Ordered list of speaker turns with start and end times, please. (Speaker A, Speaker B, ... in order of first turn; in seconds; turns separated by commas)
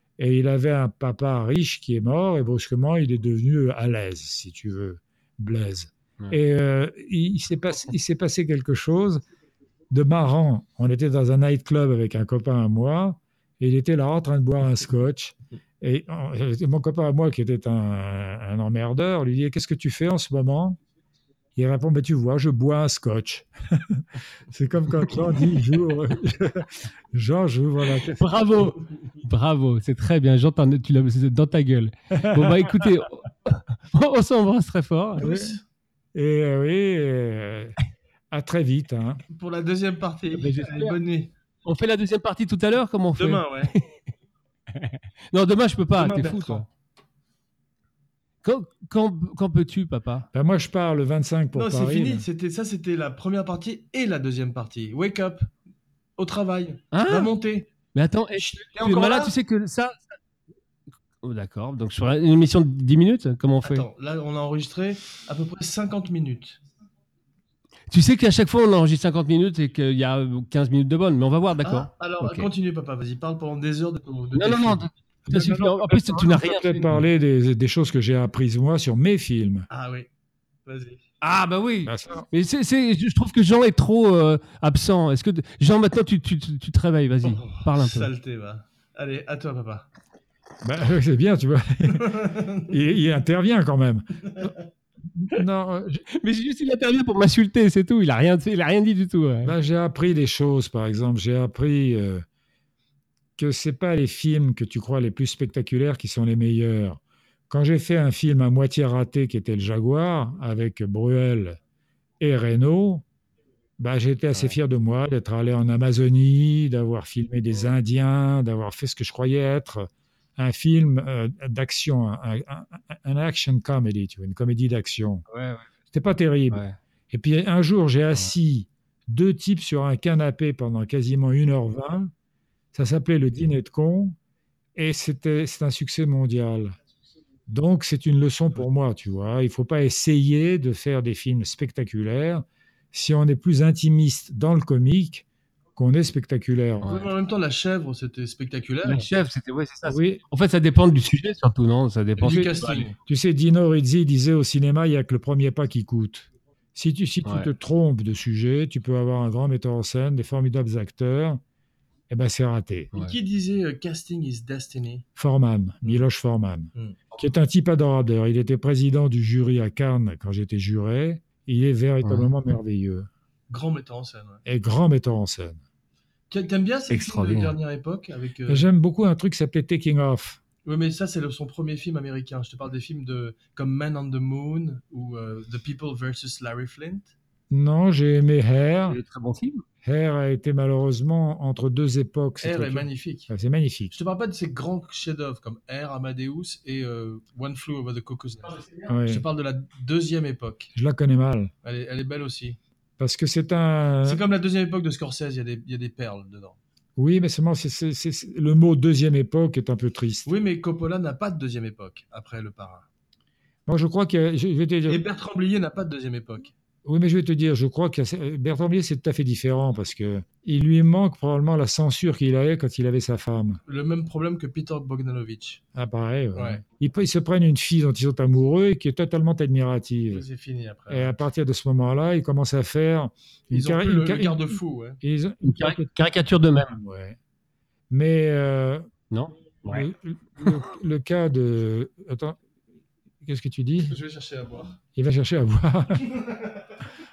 Speaker A: 0.2-9.2, Speaker A: 9.9-20.8, Speaker A: 21.6-28.2, Speaker B: 28.1-35.2, Speaker A: 32.1-32.8, Speaker C: 35.2-35.6, Speaker A: 35.2-35.5, Speaker A: 36.1-37.7, Speaker A: 38.3-39.2, Speaker C: 39.3-41.3, Speaker B: 40.3-41.0, Speaker B: 41.6-44.0, Speaker C: 43.1-43.7, Speaker B: 44.7-46.6, Speaker C: 46.0-46.6, Speaker B: 48.4-50.3, Speaker A: 50.3-52.2, Speaker C: 51.5-55.5, Speaker C: 56.2-57.7, Speaker B: 56.9-57.3, Speaker B: 57.9-60.0, Speaker C: 58.4-59.3, Speaker B: 61.2-63.8, Speaker C: 63.6-66.6, Speaker B: 67.9-72.5, Speaker C: 71.6-74.8, Speaker B: 74.3-77.0, Speaker A: 75.3-79.7, Speaker C: 79.7-80.1, Speaker C: 80.7-81.0, Speaker B: 81.2-88.1, Speaker A: 81.8-82.2, Speaker C: 87.2-89.9, Speaker A: 90.6-94.5, Speaker C: 91.9-92.7, Speaker A: 95.1-96.0, Speaker B: 96.1-99.5, Speaker A: 99.4-102.2, Speaker A: 103.4-111.6, Speaker A: 112.2-113.0, Speaker A: 113.8-125.2, Speaker B: 125.3-125.7, Speaker A: 125.9-132.1, Speaker B: 126.5-126.8, Speaker A: 132.7-134.2, Speaker A: 134.8-136.7, Speaker A: 137.5-145.2, Speaker A: 145.8-146.9, Speaker B: 146.8-147.1, Speaker C: 146.8-149.1, Speaker B: 148.8-152.9, Speaker A: 149.9-150.2, Speaker C: 152.2-152.9, Speaker A: 153.1-161.4, Speaker A: 162.1-162.9, Speaker C: 162.9-165.0, Speaker A: 165.2-173.1, Speaker C: 166.7-167.0, Speaker C: 173.5-174.4, Speaker A: 174.4-175.6, Speaker C: 176.3-178.7, Speaker B: 176.9-177.6, Speaker A: 178.5-180.4, Speaker C: 180.6-187.1, Speaker A: 187.5-189.0, Speaker B: 188.9-189.6, Speaker A: 189.8-193.9, Speaker C: 192.4-193.3, Speaker C: 193.9-200.7, Speaker A: 198.9-199.2, Speaker A: 200.7-201.5, Speaker C: 201.6-202.6, Speaker A: 203.0-204.2, Speaker C: 204.0-206.6, Speaker A: 207.0-210.3, Speaker C: 210.2-212.8, Speaker A: 213.7-215.0, Speaker C: 214.9-216.5, Speaker A: 216.8-223.6, Speaker C: 223.7-225.6, Speaker A: 225.7-230.2, Speaker C: 226.3-226.6, Speaker C: 230.1-231.1, Speaker A: 230.9-235.9, Speaker C: 233.5-235.0, Speaker B: 235.4-236.8, Speaker A: 236.7-237.2, Speaker A: 237.9-238.8, Speaker B: 239.1-239.9, Speaker A: 239.7-242.4, Speaker A: 243.2-243.9, Speaker C: 243.9-244.8, Speaker A: 244.9-246.1, Speaker C: 246.0-246.7